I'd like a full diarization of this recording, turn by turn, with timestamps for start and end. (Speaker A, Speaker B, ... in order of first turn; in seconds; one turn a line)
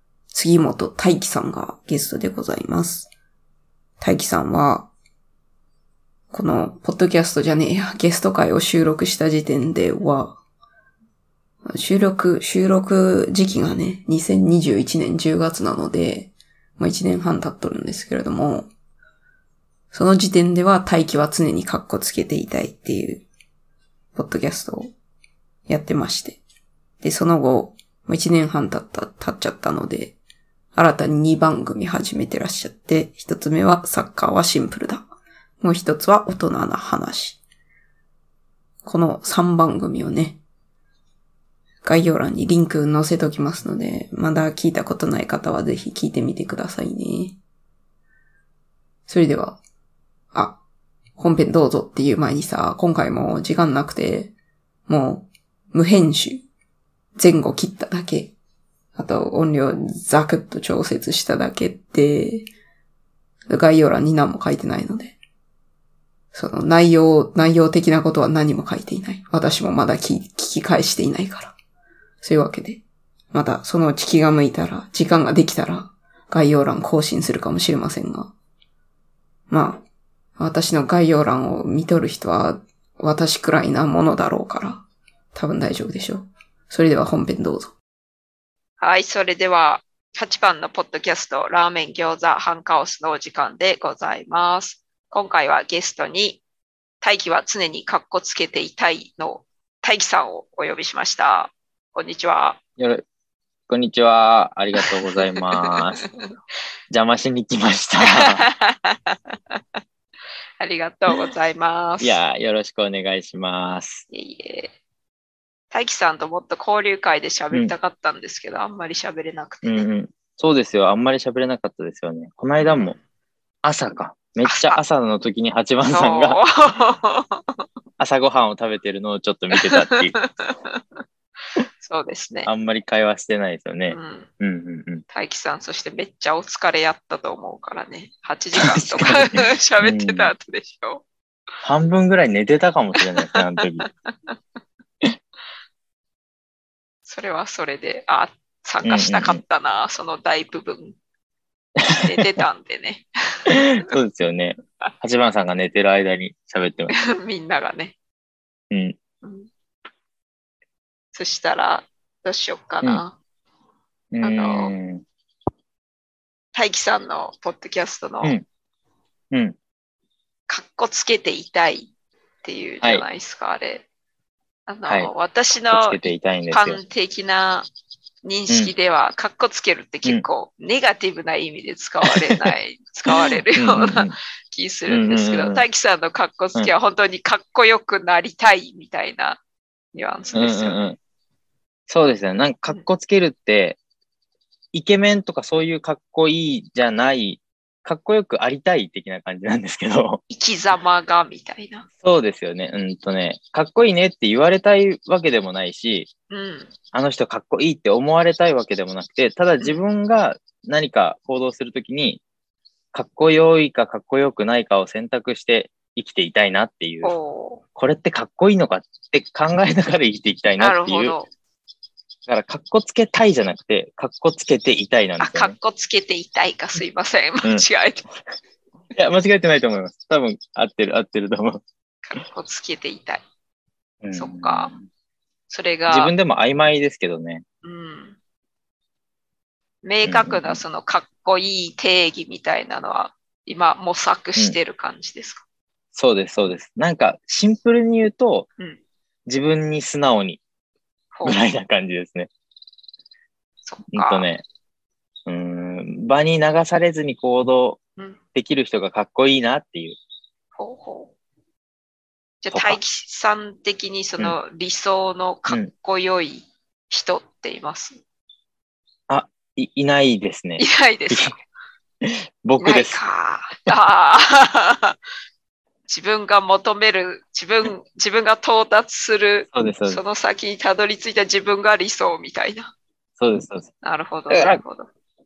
Speaker A: 0.3-3.1
Speaker A: 4.0-4.9
Speaker A: 6.3-10.4
Speaker A: 11.6-18.7
Speaker A: 19.9-23.2
Speaker A: 24.1-24.9
Speaker A: 25.7-26.4
Speaker A: 27.0-30.1
Speaker A: 30.7-35.1
Speaker A: 35.6-37.4
Speaker A: 38.8-40.4
Speaker A: 41.8-47.4
Speaker A: 49.1-49.6
Speaker A: 51.2-54.3
Speaker A: 54.9-56.4
Speaker A: 57.1-58.3
Speaker A: 59.0-62.5
Speaker A: 63.5-65.2
Speaker A: 66.3-71.5
Speaker A: 72.2-72.8
Speaker A: 73.3-78.3
Speaker A: 79.5-79.8
Speaker A: 80.4-84.8
Speaker A: 85.3-87.7
Speaker B: 88.8-96.4
Speaker B: 97.0-102.6
Speaker C: 102.8-103.0
Speaker C: 103.7-106.0
Speaker B: 104.8-106.3
Speaker C: 106.9-108.5
Speaker B: 108.0-109.6
Speaker B: 110.6-112.2
Speaker C: 112.0-114.0
Speaker B: 114.1-114.7
Speaker B: 115.7-119.9
Speaker C: 119.6-122.9
Speaker B: 122.6-123.0
Speaker C: 123.6-126.4
Speaker B: 124.4-124.8
Speaker B: 125.9-127.6
Speaker C: 128.0-130.1
Speaker B: 129.6-130.8
Speaker B: 131.8-132.5
Speaker C: 132.4-135.0
Speaker B: 133.9-134.3
Speaker B: 135.1-141.0
Speaker C: 138.6-140.3
Speaker C: 141.6-143.9
Speaker B: 147.1-151.0
Speaker C: 148.8-149.4
Speaker C: 151.8-152.4
Speaker B: 151.9-153.6
Speaker C: 153.5-156.9
Speaker B: 156.9-157.9
Speaker C: 158.7-159.0
Speaker B: 159.2-159.5
Speaker B: 161.1-163.2
Speaker C: 164.1-165.0
Speaker B: 164.2-164.7
Speaker B: 166.5-168.3
Speaker C: 169.3-169.6
Speaker B: 170.5-171.9
Speaker B: 172.4-173.8
Speaker B: 174.7-176.0
Speaker C: 174.8-175.1
Speaker C: 175.7-176.8
Speaker B: 176.5-177.7
Speaker B: 178.2-189.4
Speaker C: 182.1-182.5
Speaker C: 183.1-184.1
Speaker C: 184.9-185.6
Speaker B: 189.9-190.8
Speaker C: 190.3-191.0
Speaker C: 191.9-193.8
Speaker C: 194.7-200.2
Speaker B: 200.3-201.9
Speaker C: 202.0-206.1
Speaker B: 206.3-206.7
Speaker C: 206.9-212.2
Speaker C: 212.9-217.1
Speaker B: 217.0-217.6
Speaker C: 217.8-221.1
Speaker B: 220.6-221.3
Speaker C: 222.3-225.5
Speaker B: 225.2-228.0
Speaker C: 228.9-231.6
Speaker B: 232.0-233.2
Speaker C: 234.0-234.8
Speaker B: 234.1-234.7
Speaker B: 235.5-236.1
Speaker C: 235.9-237.4
Speaker B: 237.6-238.2
Speaker B: 239.8-245.4
Speaker C: 240.0-240.6
Speaker C: 245.9-248.5
Speaker C: 249.3-250.4
Speaker B: 251.1-251.4
Speaker C: 251.2-252.3
Speaker B: 253.6-254.2
Speaker C: 253.9-254.4
Speaker C: 255.2-257.8
Speaker C: 258.3-260.0
Speaker B: 260.6-261.1
Speaker B: 262.4-268.0
Speaker C: 262.5-262.8
Speaker C: 269.1-271.3
Speaker B: 270.6-271.3
Speaker C: 272.0-273.0
Speaker B: 272.6-275.0
Speaker B: 275.9-282.7
Speaker C: 279.5-280.0
Speaker C: 283.2-283.7
Speaker B: 283.8-284.9
Speaker C: 284.3-284.6